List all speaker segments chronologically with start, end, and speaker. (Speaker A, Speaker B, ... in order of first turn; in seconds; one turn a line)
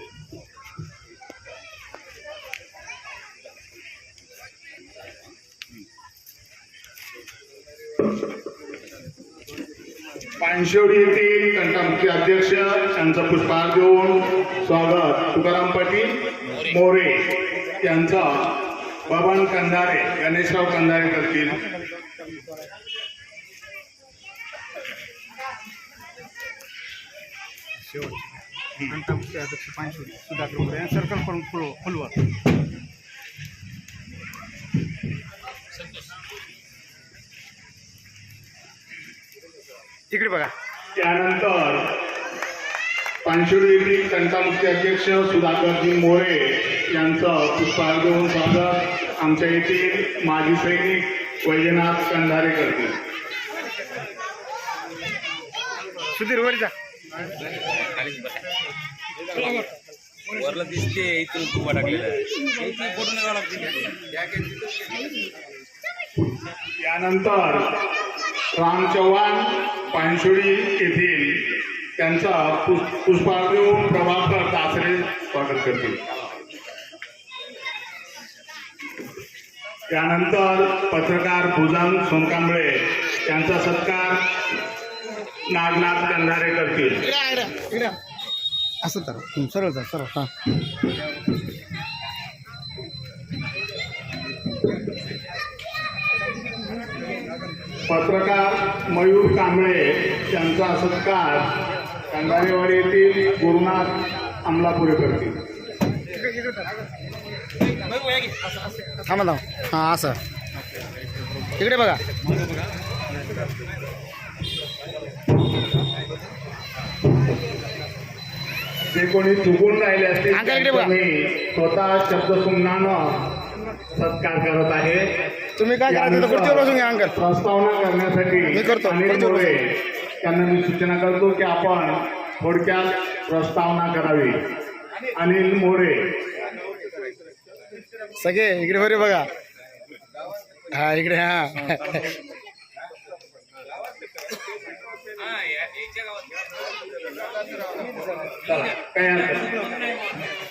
Speaker A: 10.4-21.6
Speaker B: 27.9-28.3
Speaker B: 29.0-32.0
Speaker B: 40.1-40.5
Speaker A: 41.0-41.9
Speaker A: 43.2-53.0
Speaker B: 56.1-56.7
Speaker C: 57.7-58.5
Speaker C: 59.3-59.7
Speaker C: 60.3-64.5
Speaker A: 66.8-67.7
Speaker A: 68.5-76.0
Speaker A: 79.9-84.2
Speaker A: 85.5-87.1
Speaker B: 87.0-88.0
Speaker B: 88.8-90.3
Speaker A: 97.9-101.6
Speaker A: 102.1-105.4
Speaker B: 106.3-106.6
Speaker B: 109.0-110.2
Speaker B: 111.6-112.0
Speaker A: 118.9-123.3
Speaker B: 120.3-121.0
Speaker A: 123.9-125.1
Speaker B: 125.6-127.1
Speaker A: 125.9-134.4
Speaker B: 128.5-129.6
Speaker A: 135.2-136.2
Speaker B: 138.2-139.3
Speaker B: 140.7-142.0
Speaker C: 145.6-145.9
Speaker A: 148.4-149.6